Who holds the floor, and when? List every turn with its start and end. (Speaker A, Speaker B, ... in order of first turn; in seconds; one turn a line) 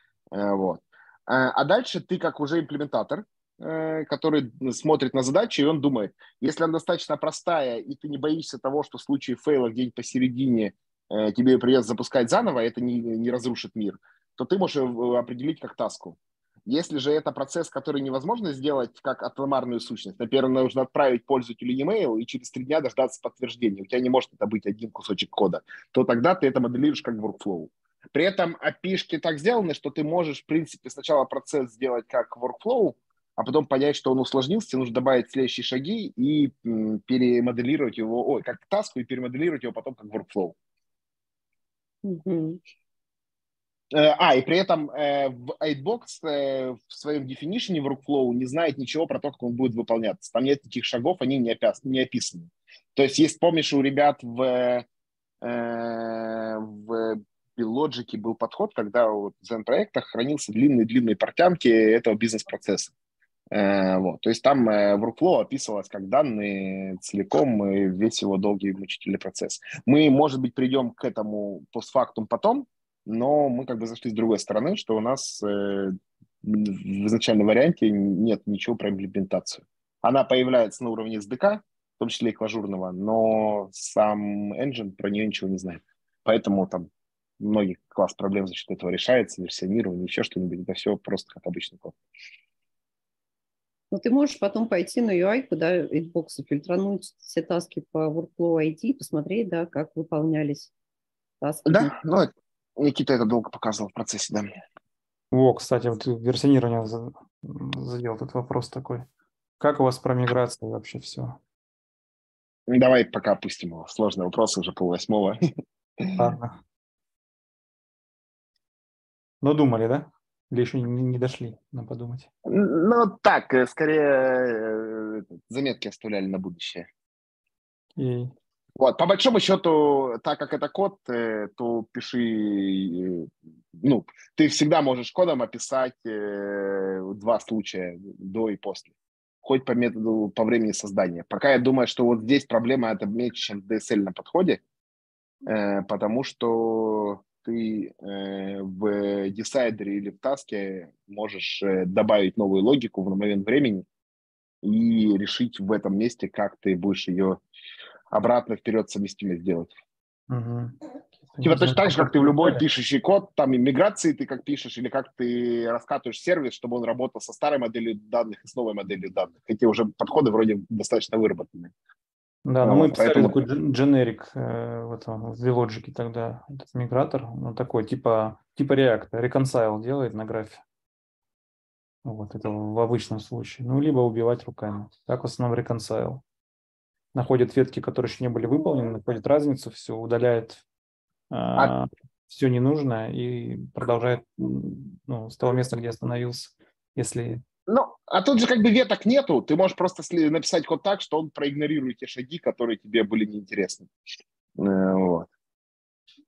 Speaker A: 0.3-40.6
Speaker B: 42.0-42.6
Speaker A: 43.9-54.9
Speaker A: 55.4-62.9
Speaker A: 63.5-92.0
Speaker B: 93.9-100.7
Speaker B: 101.4-102.0
Speaker A: 101.7-104.5
Speaker C: 105.3-109.1
Speaker C: 109.6-111.4
Speaker A: 112.7-115.4
Speaker C: 116.1-116.6
Speaker C: 119.4-122.3
Speaker A: 122.5-126.9
Speaker C: 128.0-128.3
Speaker A: 128.8-138.9
Speaker A: 139.4-144.6
Speaker A: 145.4-153.9
Speaker A: 154.6-157.4
Speaker A: 158.1-159.7
Speaker C: 160.3-160.8
Speaker C: 161.3-162.6
Speaker A: 161.4-171.7
Speaker C: 172.5-180.6
Speaker A: 172.6-173.4
Speaker C: 182.1-186.2
Speaker C: 187.2-190.6
Speaker C: 191.3-197.4
Speaker A: 197.7-203.9
Speaker A: 204.6-205.3